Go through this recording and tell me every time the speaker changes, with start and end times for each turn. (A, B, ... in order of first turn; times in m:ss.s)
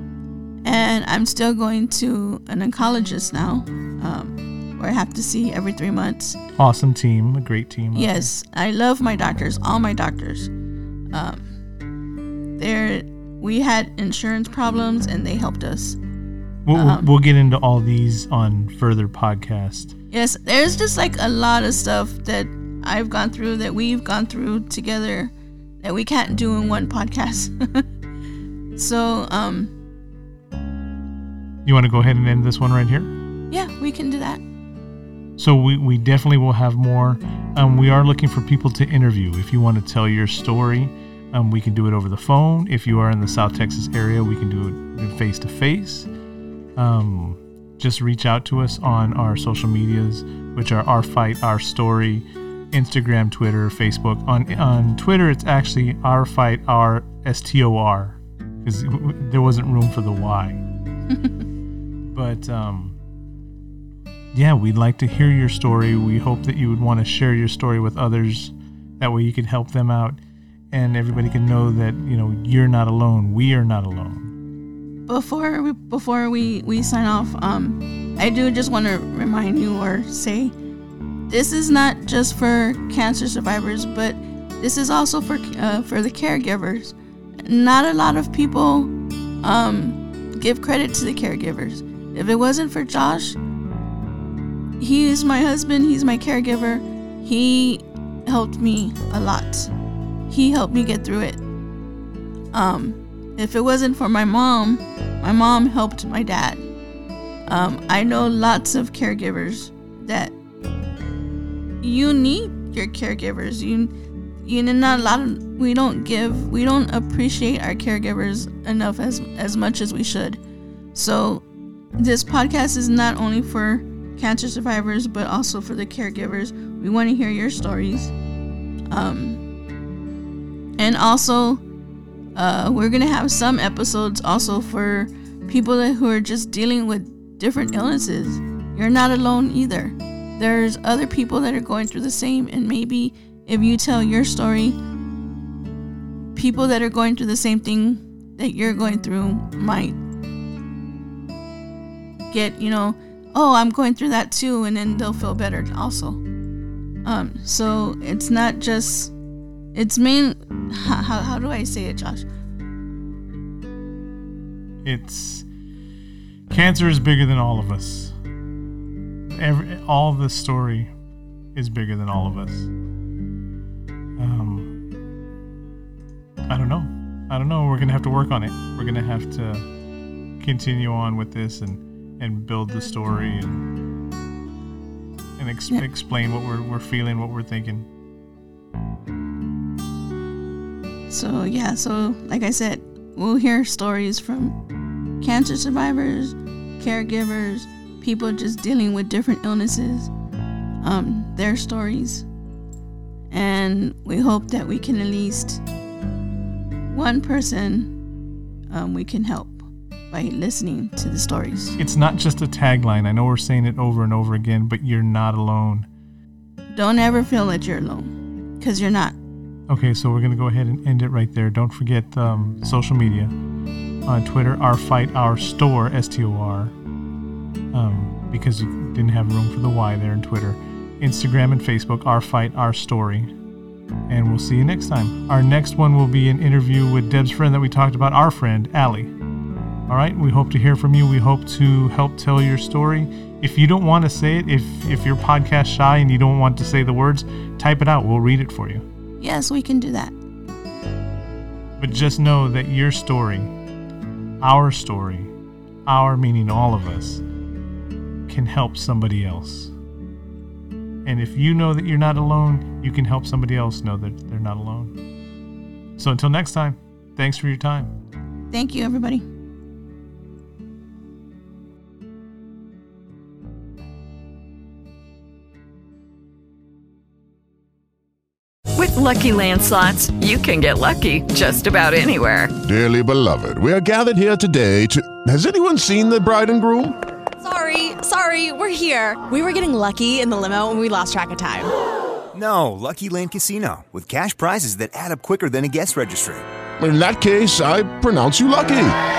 0:00.6-0:06.4 A
0:06.6-0:08.3 B
0:07.9-0:10.5 A
0:11.1-0:11.4 A
0:12.6-0:16.0 A
0:16.6-0:19.9 B
0:16.7-0:17.1 A
0:20.1-0:27.8 A
0:28.8-0:29.7 A
0:31.6-0:33.1 B
0:33.5-0:34.4 A
0:35.4-0:46.1 B
0:46.8-1:00.6 B
1:02.1-1:03.0 B
1:04.3-1:10.2 B
1:10.7-1:14.3 B
1:15.1-1:20.5 A
1:21.3-1:33.4 A
1:34.8-1:39.7 A
1:40.3-1:41.4 A
1:42.5-1:46.6 A
1:47.5-1:50.3 A
1:51.8-1:53.9 A
1:54.4-2:00.4 A
2:00.9-2:01.4 A
2:02.0-2:08.1 A
2:08.9-2:09.4 A
2:10.8-2:11.6 A
2:12.3-2:24.8 A
2:26.3-2:30.0 A
2:32.3-2:36.2 A
2:37.0-2:39.1 A
2:39.7-2:42.2 A
2:44.8-2:45.4 B
2:46.5-2:48.2 B
2:49.3-2:50.9 B
2:51.5-2:52.7 B
2:54.2-2:54.7 B
2:56.5-2:59.7 B
3:00.4-3:03.6 B
3:05.4-3:07.9 B
3:11.1-3:14.5 A
3:15.2-3:20.1 A
3:20.8-3:22.2 A
3:23.3-3:25.6 A
3:26.9-3:27.9 A
3:28.7-3:31.8 A
3:31.8-3:35.9 B
3:36.7-3:39.2 A
3:39.7-3:43.3 B
3:44.0-3:46.7 B
3:47.7-3:53.3 B
3:54.1-3:59.1 B
3:59.9-4:08.8 B
4:09.2-4:10.1 A
4:11.8-4:13.5 B
4:14.4-4:15.3 B
4:15.8-4:17.2 B
4:18.3-4:19.7 B
4:21.0-4:24.9 B
4:26.0-4:27.9 B
4:28.5-4:29.2 A
4:38.8-4:42.5 C
4:42.6-4:47.0 D
4:47.4-4:51.7 E
4:52.3-4:56.4 F
4:56.8-4:59.0 D